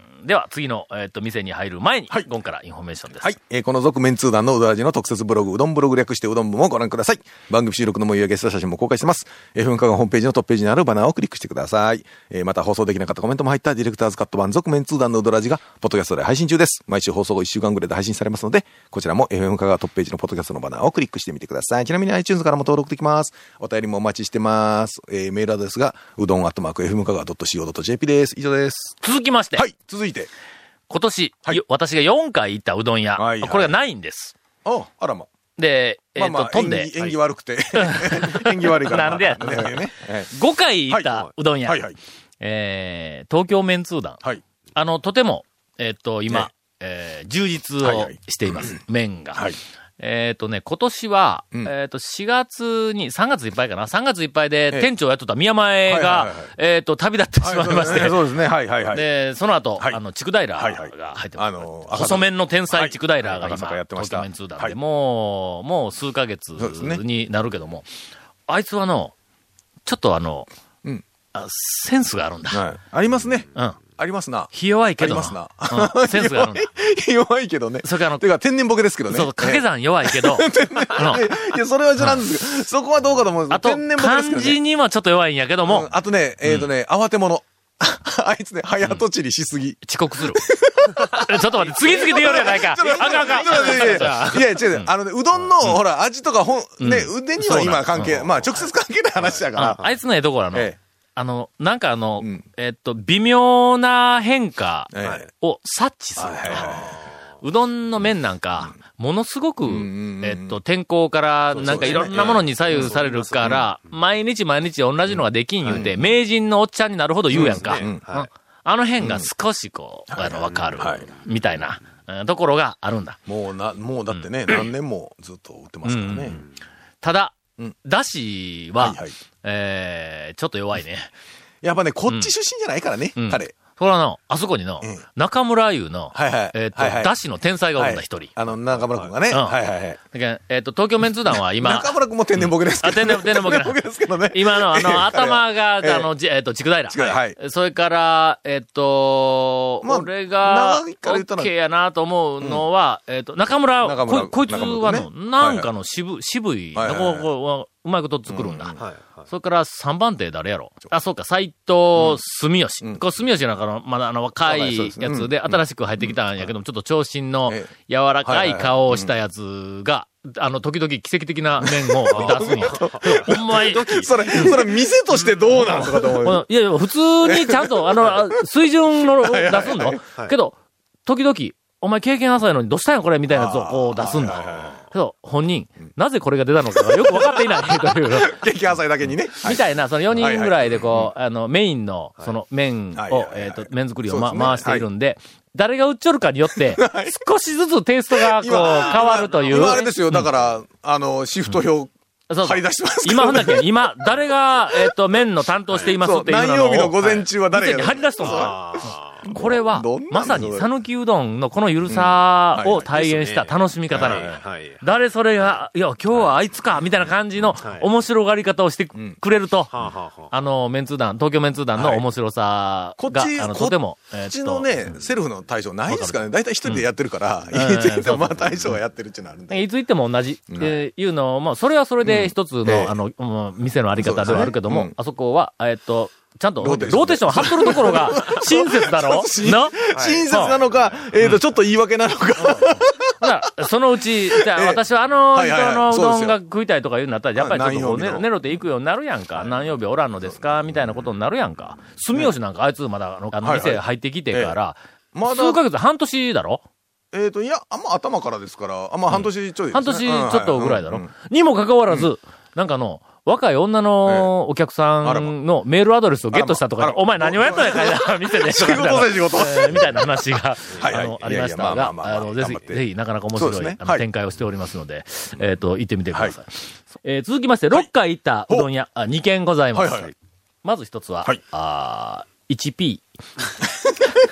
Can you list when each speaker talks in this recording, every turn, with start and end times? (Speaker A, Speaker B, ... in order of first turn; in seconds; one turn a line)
Speaker A: 0.2-3.4
Speaker B: 3.2-29.0
Speaker A: 29.0-29.6
Speaker B: 29.6-30.3
Speaker A: 30.9-34.4
Speaker B: 33.2-33.7
Speaker B: 34.6-35.3
Speaker A: 35.6-37.2
Speaker B: 36.2-40.3
Speaker A: 37.8-41.8
Speaker B: 41.7-42.0
Speaker A: 42.4-44.2
Speaker A: 44.8-58.3
Speaker B: 47.8-48.8
Speaker B: 55.9-56.5
Speaker B: 57.4-59.0
Speaker A: 58.9-67.9
Speaker B: 60.6-64.8
Speaker B: 66.6-67.0
Speaker A: 68.5-69.1
Speaker A: 69.9-70.5
Speaker A: 71.3-72.7
Speaker B: 72.5-84.6
Speaker A: 74.5-76.7
Speaker A: 77.8-78.3
Speaker A: 79.1-81.2
Speaker A: 83.5-85.9
Speaker B: 85.6-99.8
Speaker A: 86.4-86.7
Speaker A: 89.8-90.4
Speaker A: 91.0-94.9
Speaker C: 93.1-94.5
Speaker A: 96.8-98.5
Speaker C: 99.3-100.0
Speaker A: 99.5-123.2
Speaker B: 104.9-105.3
Speaker B: 106.2-107.0
Speaker B: 109.6-110.6
Speaker C: 111.5-113.6
Speaker B: 111.5-113.7
Speaker B: 115.1-116.1
Speaker C: 115.7-115.9
Speaker B: 117.3-118.1
Speaker C: 117.4-118.3
Speaker B: 119.0-119.3
Speaker B: 120.1-121.1
Speaker B: 123.3-126.4
Speaker A: 124.2-124.7
Speaker A: 125.8-126.4
Speaker A: 127.0-131.1
Speaker B: 128.8-129.2
Speaker B: 131.6-133.5
Speaker A: 133.2-138.5
Speaker B: 136.1-137.1
Speaker B: 137.8-140.0
Speaker A: 139.3-158.8
Speaker B: 141.6-146.1
Speaker B: 146.9-147.4
Speaker B: 149.8-151.5
Speaker B: 153.8-155.7
Speaker B: 156.8-157.3
Speaker B: 158.3-158.9
Speaker C: 158.8-159.2
Speaker A: 159.3-174.6
Speaker B: 164.5-166.2
Speaker B: 168.2-169.1
Speaker B: 171.6-176.4
Speaker C: 172.2-174.6
Speaker A: 175.5-188.4
Speaker B: 177.2-178.4
Speaker B: 178.9-180.0
Speaker B: 183.3-184.8
Speaker B: 186.8-191.1
Speaker A: 189.4-200.3
Speaker B: 192.9-194.9
Speaker B: 196.6-197.2
Speaker B: 198.1-201.9
Speaker C: 198.5-199.7
Speaker A: 202.3-219.7
Speaker B: 202.4-204.9
Speaker B: 205.8-208.6
Speaker C: 208.2-209.2
Speaker B: 209.2-210.7
Speaker B: 211.9-212.9
Speaker C: 212.9-214.8
Speaker B: 213.9-214.3
Speaker C: 217.6-217.9
Speaker C: 219.7-220.3
Speaker A: 220.3-225.0
Speaker B: 221.8-222.0
Speaker B: 223.0-229.6
Speaker A: 225.9-226.9
Speaker A: 227.5-228.8
Speaker A: 229.5-239.8
Speaker B: 230.5-230.8
Speaker B: 232.0-232.9
Speaker B: 234.0-234.9
Speaker B: 236.6-243.2
Speaker C: 239.9-240.9
Speaker A: 240.3-240.6
Speaker A: 242.4-256.6
Speaker B: 244.3-246.4
Speaker B: 247.4-248.3
Speaker B: 253.4-254.6
Speaker B: 255.1-255.6
Speaker B: 257.1-261.1
Speaker A: 259.1-283.1
Speaker B: 264.1-264.3
Speaker B: 265.0-265.3
Speaker B: 266.3-272.8
Speaker B: 273.4-274.0
Speaker B: 276.1-276.4
Speaker B: 279.7-280.1